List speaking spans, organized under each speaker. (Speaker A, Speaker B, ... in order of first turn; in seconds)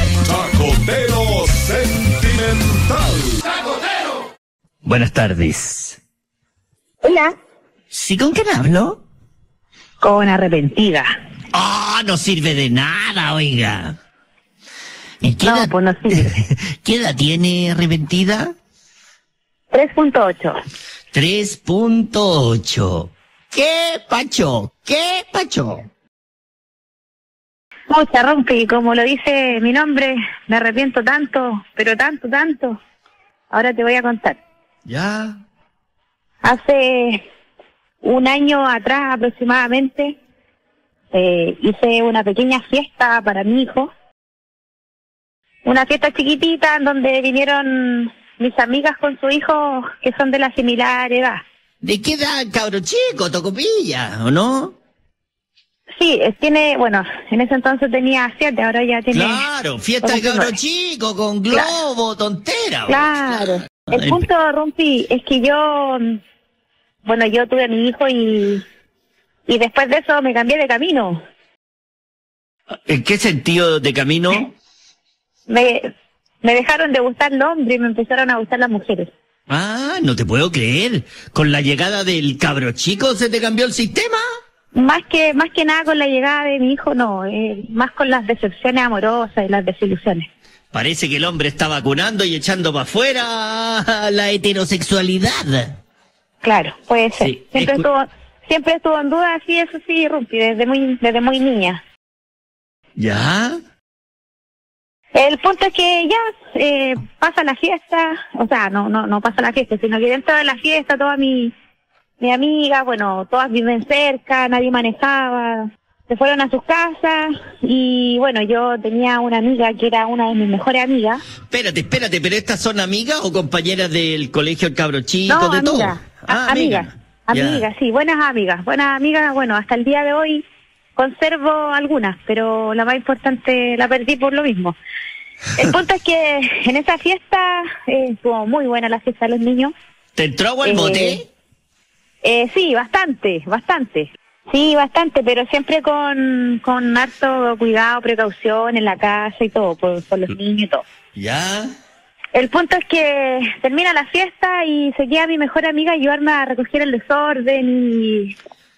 Speaker A: 0.2-3.4
Speaker B: 4.8-6.0, 7.9-9.0, 11.5-13.9, 15.2-18.5, 21.1-25.9, 34.9-35.4, 51.8-54.7, 59.1-64.3, 72.8-74.5, 79.5-84.2, 90.7-95.8, 97.2-97.8, 103.0-103.6, 121.5-127.6, 140.2-141.3, 151.2-151.7
Speaker C: 7.0-7.3, 10.0-11.1, 15.4-16.3, 19.7-20.6, 27.9-32.8, 33.5-34.4, 36.4-37.2, 38.0-40.2, 41.1-43.9, 45.6-51.4, 56.0-59.5, 60.0-60.5, 62.9-66.2, 67.0-68.6, 69.5-71.2, 75.5-75.9, 76.4-79.1, 84.7-90.3, 96.4-101.8, 105.1-111.5, 112.2-121.2, 125.3-130.4, 130.9-134.8, 135.6-139.7, 140.6-141.2, 142.2-150.8, 152.3-158.3